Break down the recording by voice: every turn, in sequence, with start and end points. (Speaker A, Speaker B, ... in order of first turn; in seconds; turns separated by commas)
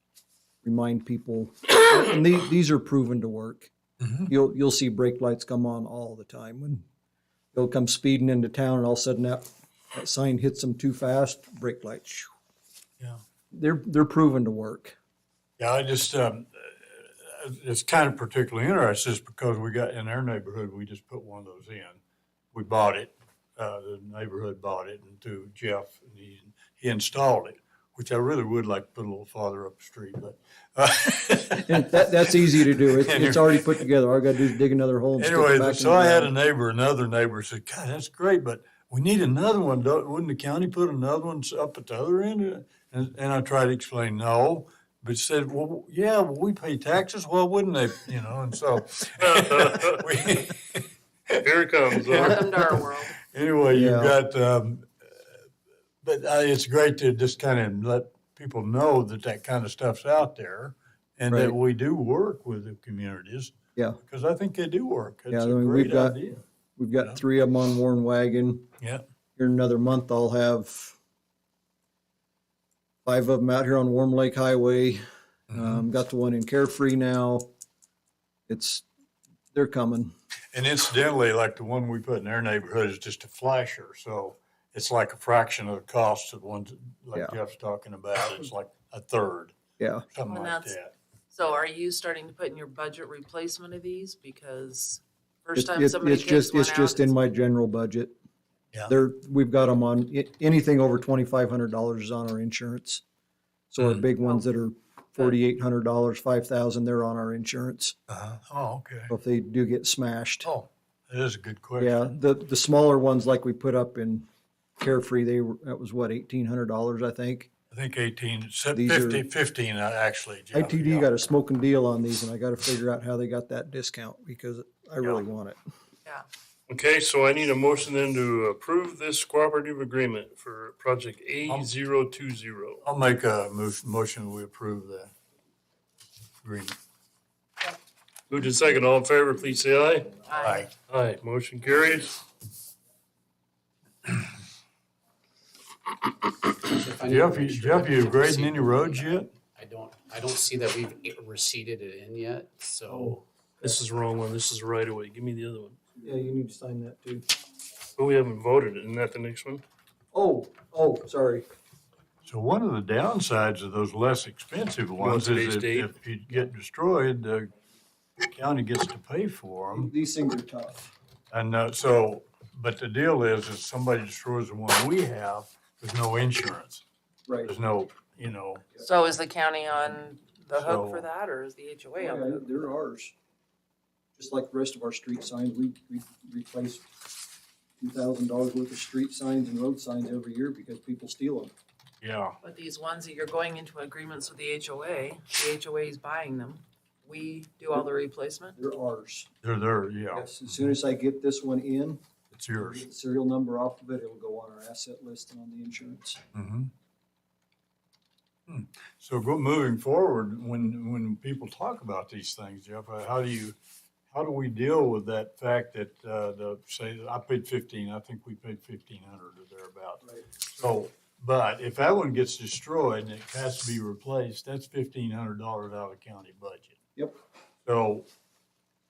Speaker A: 0.6-3.7, Speaker B: 4.0-4.3, Speaker A: 4.3-6.8, Speaker A: 7.5-12.3, Speaker A: 13.5-15.0, Speaker B: 15.6-22.0, Speaker B: 22.5-33.9, Speaker A: 31.7-36.3, Speaker B: 35.2-51.3, Speaker C: 49.2-50.0, Speaker C: 51.4-52.4, Speaker B: 52.0-55.2, Speaker D: 52.1-53.2, Speaker A: 53.7-54.1, Speaker B: 56.0-66.4, Speaker A: 61.3-61.5, Speaker A: 65.3-66.2, Speaker A: 66.8-68.6, Speaker A: 69.4-71.0, Speaker A: 73.0-77.5, Speaker B: 75.5-75.8, Speaker A: 78.5-78.8, Speaker A: 79.5-80.1, Speaker B: 80.5-89.5, Speaker A: 89.8-90.0, Speaker B: 90.1-90.9, Speaker D: 90.2-90.8, Speaker D: 91.3-97.2, Speaker A: 95.5-98.1, Speaker A: 98.9-103.0, Speaker A: 103.7-107.9, Speaker B: 103.8-104.1, Speaker B: 108.1-109.1, Speaker A: 109.1-110.5, Speaker B: 110.4-112.2, Speaker A: 111.8-114.2, Speaker A: 114.8-117.5, Speaker B: 117.7-121.1, Speaker A: 118.7-119.2, Speaker A: 120.5-125.6, Speaker C: 126.7-132.8, Speaker B: 132.8-135.1, Speaker B: 136.4-136.8, Speaker C: 138.3-140.1, Speaker D: 140.2-140.7, Speaker B: 140.4-140.7, Speaker C: 140.9-142.2, Speaker E: 146.6-153.2, Speaker B: 147.1-149.3, Speaker A: 152.9-153.2, Speaker C: 153.6-155.8, Speaker A: 156.0-157.2, Speaker C: 158.0-159.6, Speaker A: 160.1-161.4, Speaker B: 162.2-167.5, Speaker C: 165.0-165.9, Speaker B: 168.2-169.9, Speaker A: 169.7-170.9, Speaker B: 171.3-176.8, Speaker A: 177.3-177.5, Speaker B: 177.4-178.6, Speaker D: 178.8-182.4, Speaker B: 180.5-181.1, Speaker A: 182.0-183.1, Speaker A: 184.2-186.9, Speaker A: 187.8-191.5, Speaker B: 192.0-192.3, Speaker D: 192.4-198.6, Speaker A: 198.6-199.3, Speaker B: 199.4-200.5, Speaker A: 200.1-202.0, Speaker B: 202.3-202.8, Speaker A: 202.6-206.2, Speaker B: 206.3-206.7, Speaker B: 208.5-213.6, Speaker B: 214.1-226.8, Speaker B: 227.6-228.1